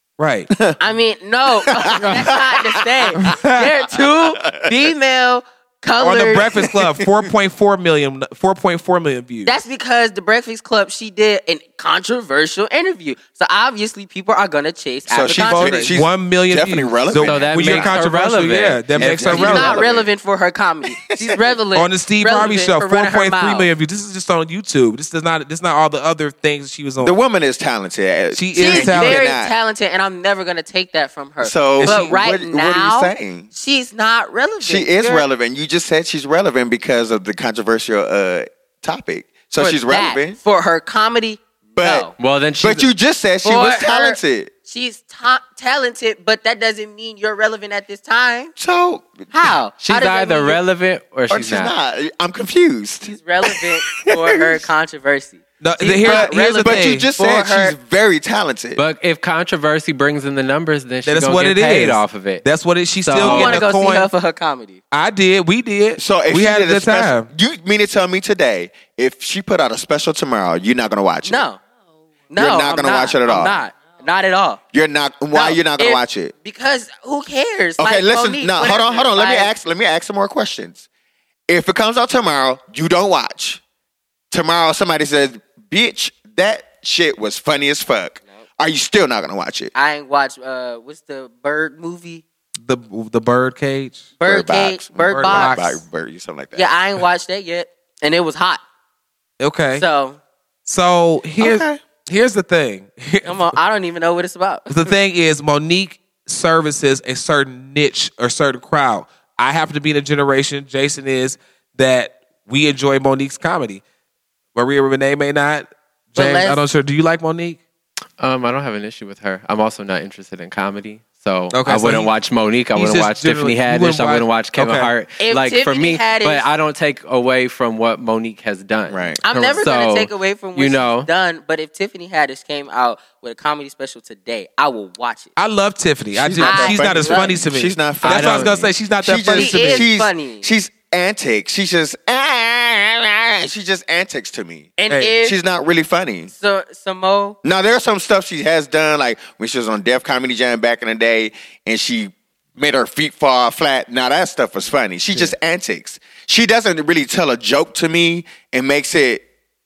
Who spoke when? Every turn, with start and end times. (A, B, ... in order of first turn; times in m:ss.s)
0:00.2-0:00.5 A
0:00.5-0:00.8 B
0:00.8-0:06.5 C
0:01.6-0:03.4 B
0:02.0-0:02.3 D
0:03.2-0:03.7 A
0:03.9-0:04.9 B
0:06.0-0:09.5 A
0:09.4-0:16.0 C
0:15.1-0:18.0 B
0:15.3-0:19.8 A
0:17.2-0:19.1 D
0:19.0-0:20.1 B
0:19.1-0:23.7 C
0:20.9-0:21.4 B
0:21.7-0:27.2 A
0:27.0-0:29.5 B
0:28.3-0:29.2 A
0:28.6-0:35.2 C
0:31.4-0:33.5 B
0:31.8-0:32.2 A
0:34.6-0:40.4 B
0:39.6-0:42.1 C
0:41.8-0:42.1 B
0:42.2-0:42.9 D
0:42.6-0:44.5 B
0:43.4-0:48.5 C
0:48.6-0:49.5 B
0:49.3-0:50.6 C
0:49.8-0:51.7 D
0:51.3-0:54.7 B
0:53.0-0:57.8 C
0:55.6-0:57.1 A
0:56.0-0:58.8 B
0:58.8-1:02.4 D
1:01.0-1:04.1 A
1:03.0-1:03.6 D
1:03.2-1:04.8 C
1:04.9-1:07.3 A
1:06.0-1:11.4 B
1:11.2-1:11.6 C
1:12.3-1:14.6 C
1:12.4-1:13.6 B
1:14.7-1:16.3 B
1:15.3-1:19.5 C
1:17.8-1:20.8 B
1:21.5-1:23.6 B
1:24.3-1:29.7 B
1:29.7-1:32.2 C
1:32.6-1:34.1 A
1:34.2-1:35.6 C
1:34.2-1:36.7 B
1:35.1-1:35.8 A
1:36.5-1:38.6 C
1:39.4-1:39.8 A
1:39.7-1:40.2 C
1:40.6-1:43.6 A
1:41.4-1:41.8 B
1:43.2-1:44.9 C
1:44.7-1:53.8 A
1:54.5-1:57.6 A
1:56.1-1:56.6 C
1:58.2-2:11.1 D
2:01.5-2:02.1 A
2:02.7-2:04.9 A
2:05.2-2:06.4 C
2:08.9-2:09.2 B
2:09.2-2:15.3 C
2:15.4-2:19.9 A
2:16.1-2:26.3 B
2:16.4-2:17.4 C
2:18.0-2:18.6 D
2:19.3-2:20.5 C
2:24.8-2:25.4 C
2:24.9-2:25.2 A
2:26.3-2:27.4 C
2:27.4-2:39.2 B